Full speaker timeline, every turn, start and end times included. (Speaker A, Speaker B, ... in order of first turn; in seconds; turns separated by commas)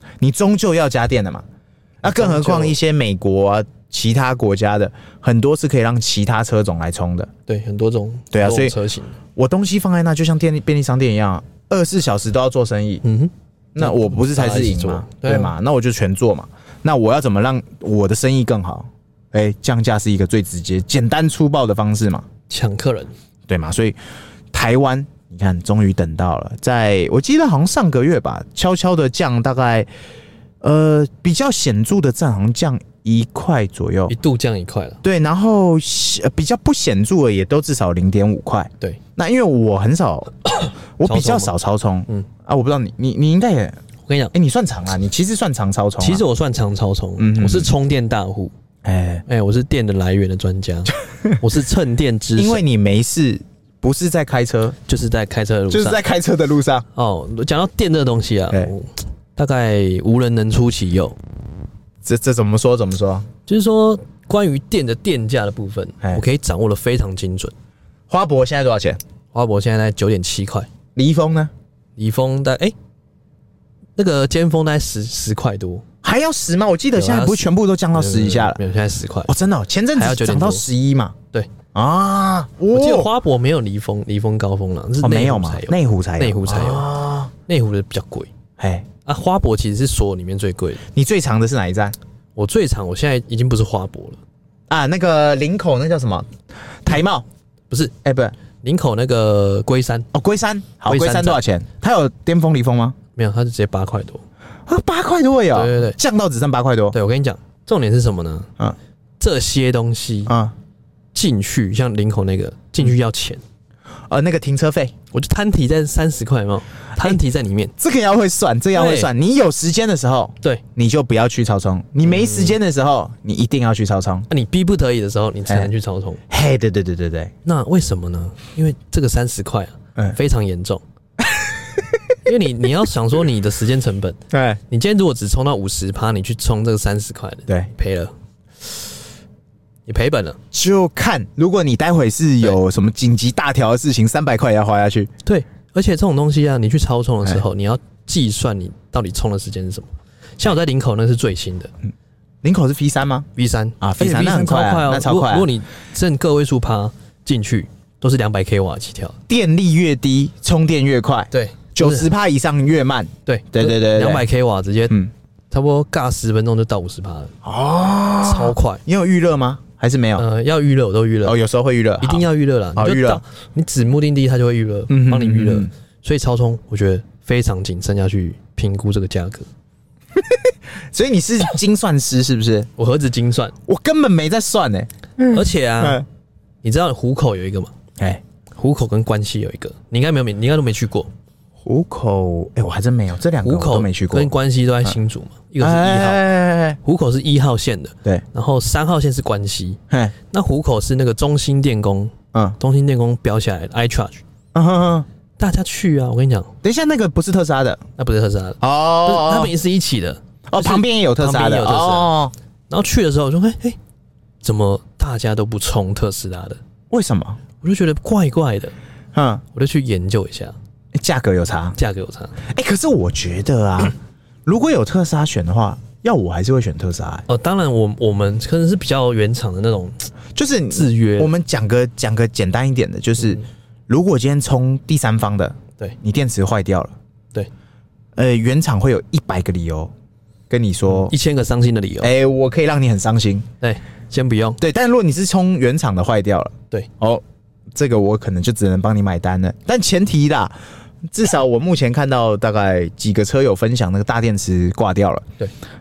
Speaker A: 0.2-1.4, Speaker A: 2.0-7.3, Speaker B: 2.0-2.8, Speaker B: 7.5-9.2, Speaker A: 8.3-8.8, Speaker A: 9.3-13.0, Speaker B: 13.0-15.5, Speaker A: 13.7-22.2, Speaker B: 22.5-23.1, Speaker A: 23.5-24.0, Speaker A: 24.5-29.9, Speaker A: 30.6-34.1, Speaker B: 34.1-35.0, Speaker A: 35.0-40.5, Speaker B: 40.5-41.5, Speaker A: 41.0-43.8, Speaker B: 44.0-44.3, Speaker A: 44.3-46.2, Speaker B: 46.0-48.5, Speaker A: 47.2-47.7, Speaker A: 48.8-49.2, Speaker B: 49.3-52.6, Speaker A: 52.4-54.8, Speaker B: 54.9-56.0, Speaker A: 55.7-56.8, Speaker B: 56.9-61.2, Speaker A: 62.0-63.3, Speaker B: 63.5-67.5, Speaker A: 68.1-69.0, Speaker B: 69.3-70.7, Speaker A: 70.9-71.5, Speaker B: 72.0-72.7, Speaker B: 74.0-75.8, Speaker A: 76.0-78.6, Speaker B: 76.9-79.3, Speaker A: 79.2-81.2, Speaker B: 79.9-80.7, Speaker A: 81.7-83.1, Speaker B: 82.7-86.9, Speaker A: 85.0-87.3, Speaker B: 87.5-88.3, Speaker A: 88.6-88.9, Speaker B: 89.0-90.8, Speaker A: 90.9-92.0, Speaker B: 92.3-94.2, Speaker A: 94.7-96.3, Speaker A: 96.8-97.2, Speaker A: 98.0-98.3, Speaker B: 98.6-100.1, Speaker A: 100.1-103.0, Speaker B: 100.8-101.4, Speaker B: 103.2-104.2, Speaker A: 104.7-106.9, Speaker B: 105.5-106.0, Speaker B: 106.9-108.5, Speaker B: 109.2-110.3, Speaker A: 110.3-110.5, Speaker B: 111.1-113.4, Speaker A: 114.1-114.9, Speaker B: 115.1-117.7, Speaker A: 117.8-124.3, Speaker B: 118.7-119.1, Speaker B: 122.0-122.6, Speaker B: 124.3-126.2, Speaker A: 126.3-127.3, Speaker B: 127.4-130.8, Speaker A: 131.2-132.0, Speaker B: 132.2-134.2, Speaker A: 134.3-134.6, Speaker B: 134.7-138.1, Speaker B: 139.9-140.4, Speaker A: 140.5-145.1, Speaker B: 145.2-151.7, Speaker A: 152.4-153.3, Speaker B: 153.3-159.2, Speaker A: 153.8-155.5, Speaker A: 159.3-164.2, Speaker B: 161.3-162.1, Speaker B: 163.2-165.0, Speaker B: 165.5-167.3, Speaker A: 167.4-170.2, Speaker B: 168.2-168.8, Speaker B: 170.2-171.4, Speaker A: 171.2-173.2, Speaker B: 172.0-179.5, Speaker A: 174.9-175.7, Speaker A: 180.1-182.7, Speaker B: 182.8-183.5, Speaker A: 183.7-186.0, Speaker B: 185.3-186.0, Speaker B: 186.6-187.7, Speaker B: 188.6-191.1, Speaker A: 191.6-194.3, Speaker B: 193.4-196.2, Speaker A: 195.6-196.8, Speaker B: 196.8-204.2, Speaker A: 204.5-205.1, Speaker B: 205.4-206.5, Speaker A: 206.6-207.8, Speaker B: 208.0-212.1, Speaker A: 208.6-209.5, Speaker A: 210.5-212.3, Speaker B: 212.7-213.8, Speaker B: 214.4-216.6, Speaker A: 216.9-217.4, Speaker B: 217.6-218.7, Speaker A: 219.1-219.4, Speaker B: 219.5-220.5, Speaker A: 220.9-221.8, Speaker B: 221.8-222.4, Speaker A: 222.4-227.2, Speaker B: 227.3-230.1, Speaker A: 230.3-236.9, Speaker B: 230.7-231.3, Speaker A: 238.2-239.9, Speaker A: 240.5-241.1, Speaker B: 240.9-242.1, Speaker A: 242.0-243.5, Speaker B: 243.6-244.6, Speaker A: 244.6-247.2, Speaker A: 247.7-250.5, Speaker A: 251.1-255.3